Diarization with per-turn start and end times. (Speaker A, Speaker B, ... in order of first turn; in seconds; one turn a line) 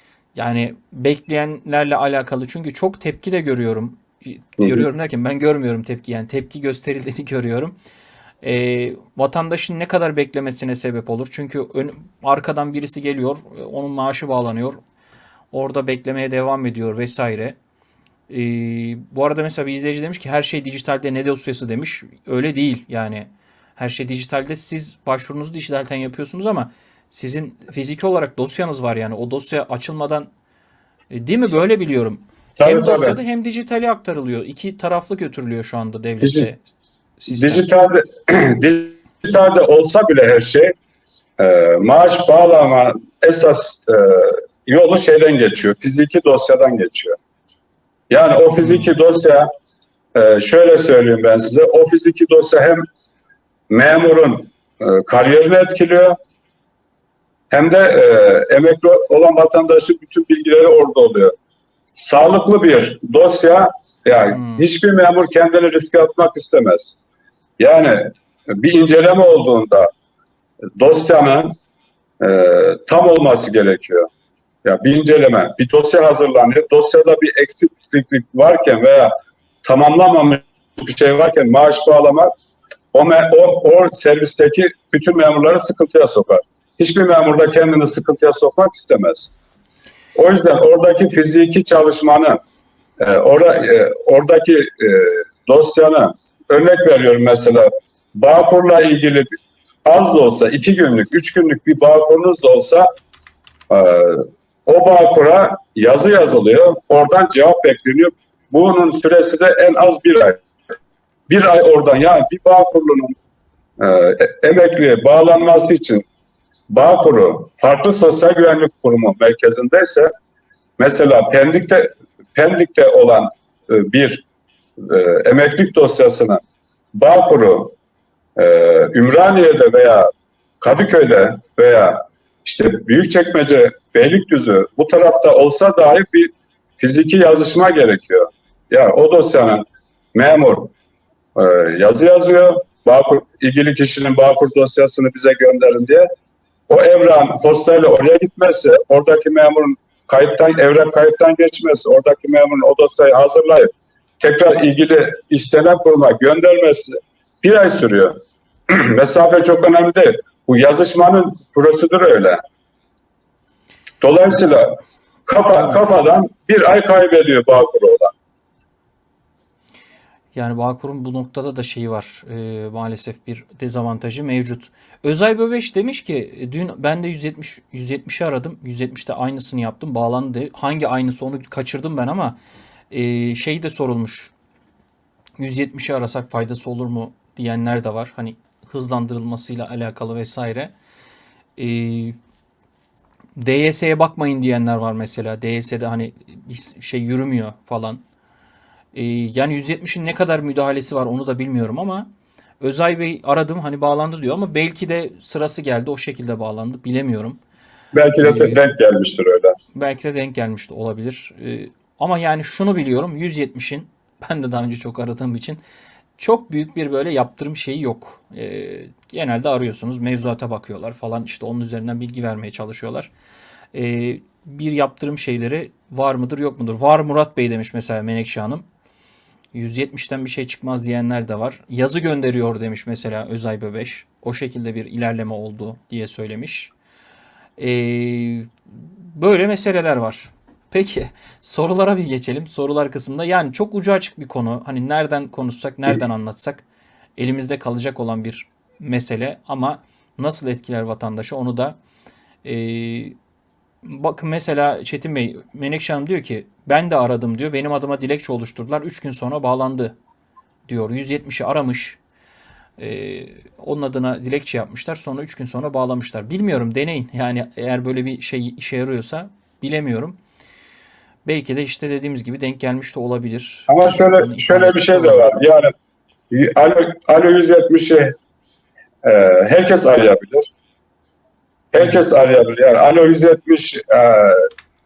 Speaker A: 0.3-7.8
Speaker B: 4.6-4.9
Speaker A: 8.4-14.8
Speaker A: 15.5-17.6
Speaker A: 18.3-30.3
Speaker A: 31.1-36.6
Speaker B: 32.6-33.2
Speaker B: 36.2-36.5
Speaker A: 37.2-37.6
Speaker B: 37.3-40.7
Speaker B: 41.4-47.1
Speaker B: 48.1-49.5
Speaker A: 48.6-48.9
Speaker B: 50.1-52.8
Speaker B: 53.7-56.1
Speaker B: 57.5-61.3
Speaker B: 61.9-67.0
Speaker A: 64.3-64.6
Speaker B: 67.6-69.9
Speaker B: 70.8-71.5
Speaker B: 72.2-74.0
Speaker B: 74.6-79.1
Speaker B: 79.6-82.3
Speaker B: 82.9-89.3
Speaker B: 90.1-92.4
Speaker B: 93.0-99.3
Speaker B: 99.8-102.9
Speaker B: 103.7-110.4
Speaker B: 111.3-113.1
Speaker B: 113.8-116.0
Speaker B: 116.7-120.1
Speaker B: 120.8-124.2
Speaker B: 124.8-126.4
Speaker B: 126.9-127.7
Speaker B: 128.3-130.1
Speaker B: 130.6-140.7
Speaker B: 141.3-146.1
Speaker B: 146.7-158.2
Speaker B: 158.7-162.4
Speaker B: 164.0-168.1
Speaker A: 170.3-182.4
Speaker A: 182.9-184.3
Speaker A: 185.4-190.7
Speaker A: 191.6-192.2
Speaker A: 193.4-198.0
Speaker A: 198.9-202.1
Speaker A: 202.6-207.4
Speaker B: 207.9-209.6
Speaker A: 208.2-208.6
Speaker A: 209.7-215.6
Speaker A: 216.2-223.1
Speaker A: 223.7-228.7
Speaker A: 229.5-236.7
Speaker A: 237.6-246.6
Speaker A: 247.2-251.8
Speaker A: 252.4-253.2
Speaker A: 253.8-259.9
Speaker A: 260.7-262.0
Speaker A: 262.8-270.2
Speaker A: 271.2-275.3
Speaker B: 273.7-275.7
Speaker B: 276.3-278.1
Speaker B: 279.0-280.5
Speaker B: 281.7-284.4